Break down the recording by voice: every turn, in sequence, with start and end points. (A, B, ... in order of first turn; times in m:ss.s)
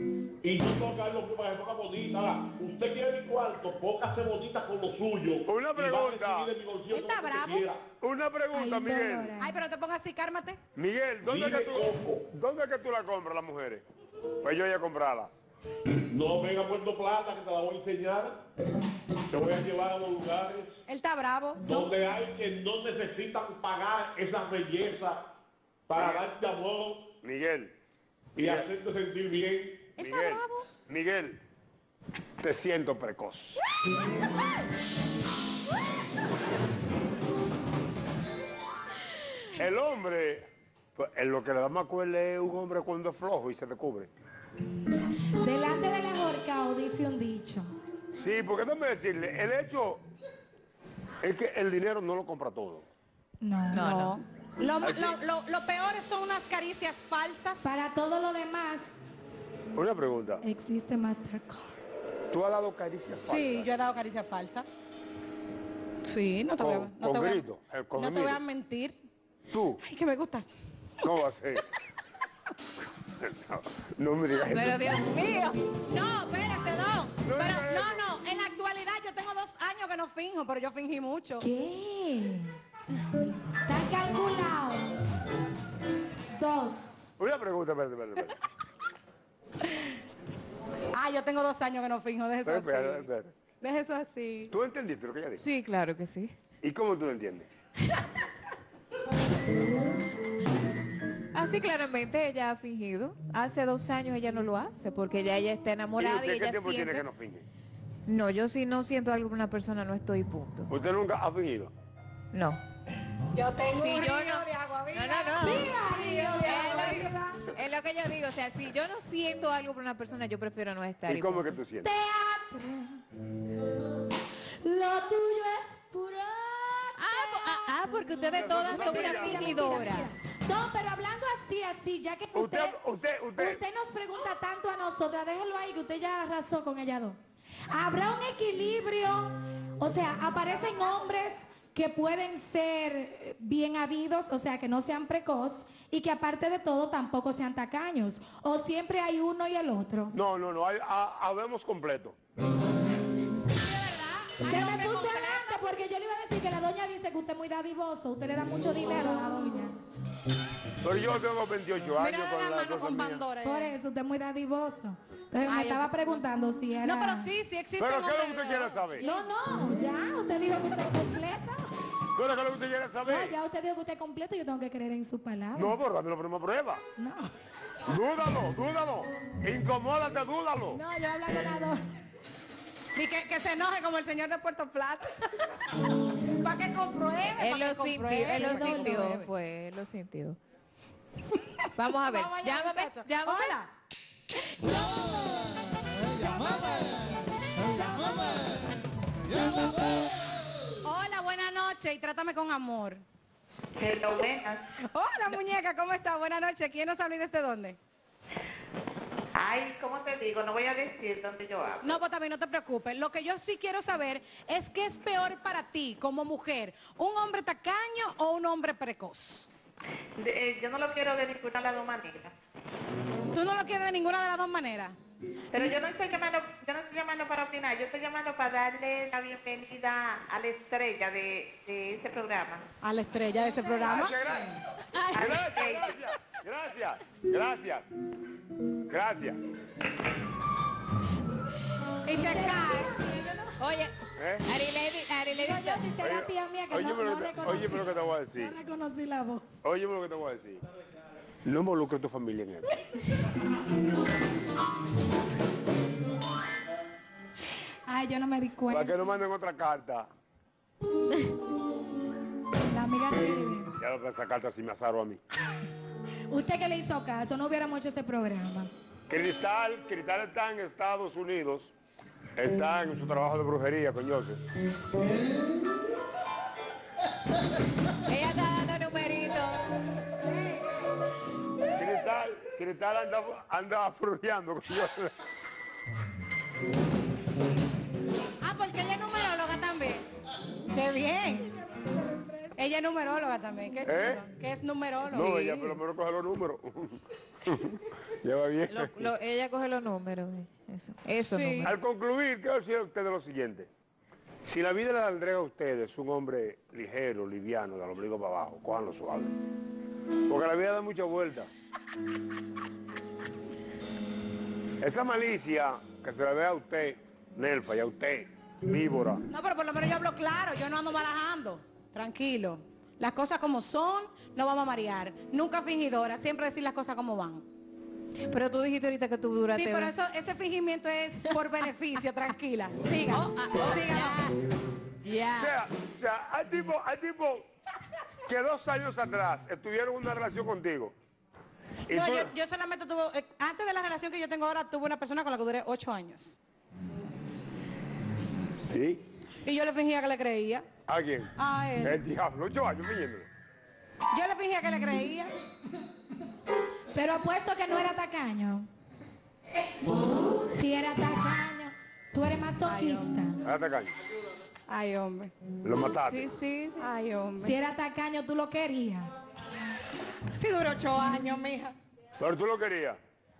0:00.4-0:07.8 A
0:05.4-0:06.5 B
0:06.9-0:07.6 C
0:08.0-0:09.3 B
0:08.5-0:09.5 D
0:09.4-0:10.6 C
0:10.7-0:13.8 B
0:11.2-0:12.2 A
0:14.4-0:15.3 B
0:16.1-0:18.4 A
0:19.3-0:20.8 A
0:20.9-0:21.7 C
0:21.6-0:25.3 A
0:21.6-0:22.0 D
0:25.9-0:27.1 A
0:25.9-0:26.3 B
0:27.2-0:27.7 B
0:28.4-0:28.7 B
0:28.4-0:30.0 A
0:30.0-0:31.4 B
0:32.4-0:33.6 B
0:39.5-0:44.1 B
0:45.4-0:47.7 D
0:48.1-0:50.0 B
0:51.2-0:52.9 B
0:53.4-0:53.8 D
0:53.7-0:54.1 E
0:53.8-0:57.7 C
0:54.8-0:55.2 B
0:57.6-0:59.0 D
0:59.7-1:00.4 B
1:00.4-1:01.7 D
1:02.3-1:03.7 B
1:03.3-1:04.7 C
1:06.0-1:07.4 C
1:06.6-1:08.4 B
1:07.9-1:09.0 C
1:09.5-1:09.8 B
1:09.8-1:10.5 C
1:11.0-1:11.6 B
1:13.2-1:14.8 B
1:14.4-1:15.7 E
1:15.9-1:21.4 C
1:17.2-1:18.0 B
1:21.4-1:22.6 D
1:23.6-1:24.9 D
1:26.3-1:27.1 D
1:27.2-1:28.4 B
1:30.9-1:33.1 C
1:32.4-1:33.3 B
1:33.6-1:34.5 C
1:34.5-1:35.4 B
1:35.4-1:36.3 E
1:36.6-1:37.5 B
1:41.3-1:47.1 E
1:46.0-1:47.4 B
1:48.0-1:50.7 E
1:50.7-1:51.7 B
1:52.3-1:52.6 E
1:53.3-1:57.0 C
1:53.7-1:55.8 E
1:55.4-1:57.5 D
1:56.4-2:01.6 E
2:01.0-2:01.9 B
2:01.8-2:03.0 D
2:04.6-2:12.8 D
2:07.0-2:10.1 E
2:08.3-2:09.9 B
2:12.3-2:13.6 B
2:13.4-2:17.2 D
2:17.7-2:30.1 D
2:30.1-2:32.2 B
2:33.6-2:35.6 C
2:34.4-2:39.8 D
2:40.8-2:43.2 B
2:42.0-2:43.7 C
2:43.4-2:47.3 D
2:45.4-2:46.2 C
2:46.8-2:49.3 C
2:47.8-2:49.1 B
2:49.0-2:51.7 D
2:52.1-2:53.4 B
2:53.1-2:55.7 D
2:55.5-2:56.8 B
2:57.0-2:57.3 D
2:57.8-3:00.8 B
3:00.7-3:01.9 D
3:02.9-3:05.7 C
3:06.4-3:09.3 C
3:07.4-3:10.4 E
3:08.3-3:09.2 D
3:11.7-3:13.6 E
3:12.0-3:13.7 C
3:16.2-3:17.0 D
3:17.7-3:18.4 D
3:20.8-3:23.0 C
3:23.8-3:24.7 F
3:24.8-3:27.8 C
3:29.4-3:32.0 F
3:31.8-3:39.5 C
3:40.2-3:42.3 F
3:43.3-3:45.0 C
3:45.5-3:52.6 F
3:52.8-3:54.2 C
3:53.8-3:54.6 B
3:54.9-3:55.7 E
3:55.1-3:57.9 B
3:58.9-3:59.4 B
4:02.0-4:02.9 C
4:02.2-4:03.6 D
4:03.6-4:03.9 E
4:04.2-4:04.4 B
4:04.4-4:05.8 E
4:05.4-4:09.6 D
4:06.0-4:08.6 B
4:09.6-4:10.6 B
4:11.4-4:12.7 B
4:17.8-4:18.9 D
4:18.7-4:20.1 B
4:22.6-4:23.7 D
4:23.8-4:25.2 B
4:26.3-4:28.7 D
4:29.1-4:31.7 B
4:32.4-4:34.4 B
4:38.1-4:39.7 E
4:41.8-4:45.1 B
4:48.4-4:50.0 C
4:50.7-4:51.5 C
4:51.7-4:52.5 D
4:52.6-4:55.2 C
4:53.8-4:54.2 B
4:55.0-4:55.8 E
4:55.0-4:59.1 B
4:58.7-5:01.7 E
5:01.3-5:01.6 C
5:01.6-5:03.7 B
5:04.4-5:09.3 B
5:10.3-5:11.5 B
5:14.8-5:19.2 B
5:19.3-5:27.4 C
5:28.3-5:30.0 E
5:29.5-5:34.2 C
5:33.1-5:34.4 E
5:35.0-5:35.5 E
5:35.4-5:37.4 B
5:38.2-5:40.9 B
5:41.9-5:42.3 B
5:41.9-5:46.4 C
5:48.7-5:49.0 B
5:49.4-5:50.6 C
5:50.9-5:53.3 B
5:51.4-5:52.0 C
5:54.1-5:55.3 C
5:56.9-5:58.7 D
6:00.5-6:03.4 D
6:02.7-6:03.2 C
6:03.4-6:03.9 B
6:04.7-6:05.3 C
6:05.6-6:06.3 B
6:06.0-6:06.9 E
6:06.8-6:07.5 C
6:07.4-6:09.1 D
6:10.3-6:11.8 C
6:12.2-6:13.0 B